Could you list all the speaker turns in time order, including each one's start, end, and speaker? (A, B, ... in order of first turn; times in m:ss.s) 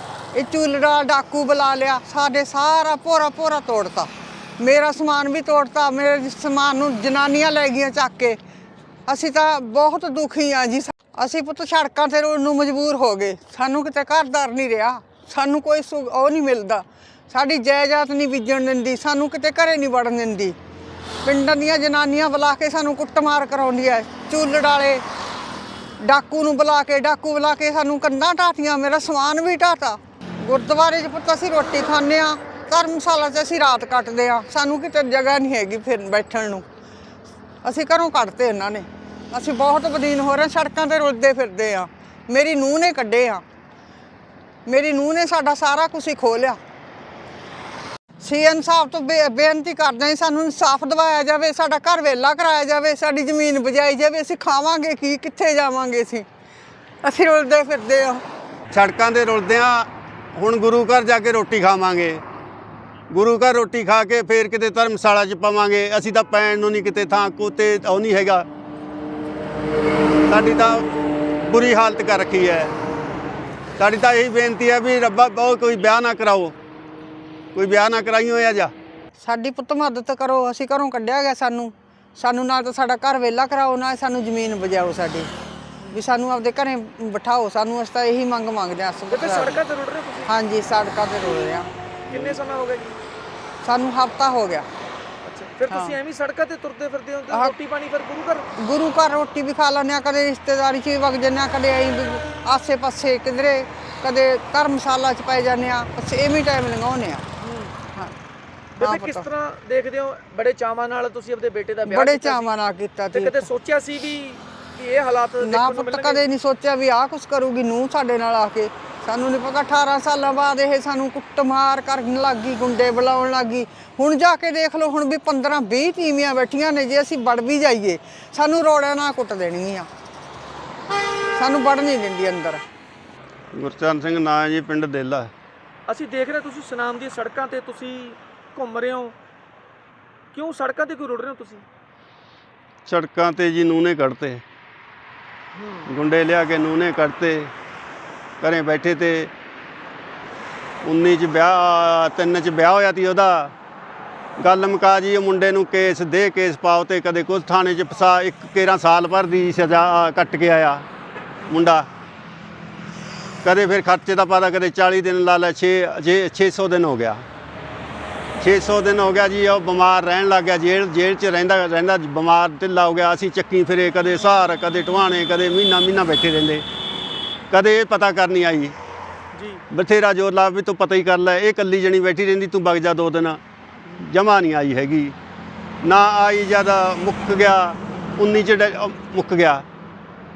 0:00.3-0:08.4 A
0:09.1-0:20.6 A
0:21.2-0:25.0 A
0:26.0-0:36.6 A
0:37.6-0:43.4 A
0:44.6-0:46.6 A
0:48.2-0:56.2 A
0:57.0-0:58.2 A
0:58.7-1:02.2 B
1:03.1-1:08.4 B
1:10.3-1:10.9 B
1:11.4-1:12.7 B
1:13.8-1:16.5 B
1:17.5-1:18.7 B
1:19.2-1:25.3 A
1:25.9-1:29.6 A
1:29.1-1:30.3 C
1:30.2-1:32.3 A
1:32.1-1:33.0 C
1:33.6-1:34.6 A
1:35.2-1:38.5 C
1:35.7-1:35.9 A
1:38.6-1:47.2 A
1:47.4-1:47.7 C
1:48.8-1:52.5 C
1:48.8-1:49.3 A
1:51.8-1:53.5 A
1:53.1-1:56.2 C
1:55.4-2:09.9 A
2:11.4-2:12.6 A
2:13.5-2:15.3 B
2:15.9-2:19.1 C
2:20.3-2:21.6 C
2:22.8-2:24.4 B
2:25.5-2:25.9 C
2:25.8-2:27.5 B
2:28.4-2:29.3 B
2:30.8-2:33.5 B
2:34.4-2:40.8 B
2:41.5-2:41.9 B
2:43.4-2:47.2 B
2:48.4-2:56.6 B
2:57.5-2:58.8 B
2:59.3-2:59.6 C
2:59.7-3:03.4 B
3:04.0-3:05.2 B
3:05.8-3:09.6 B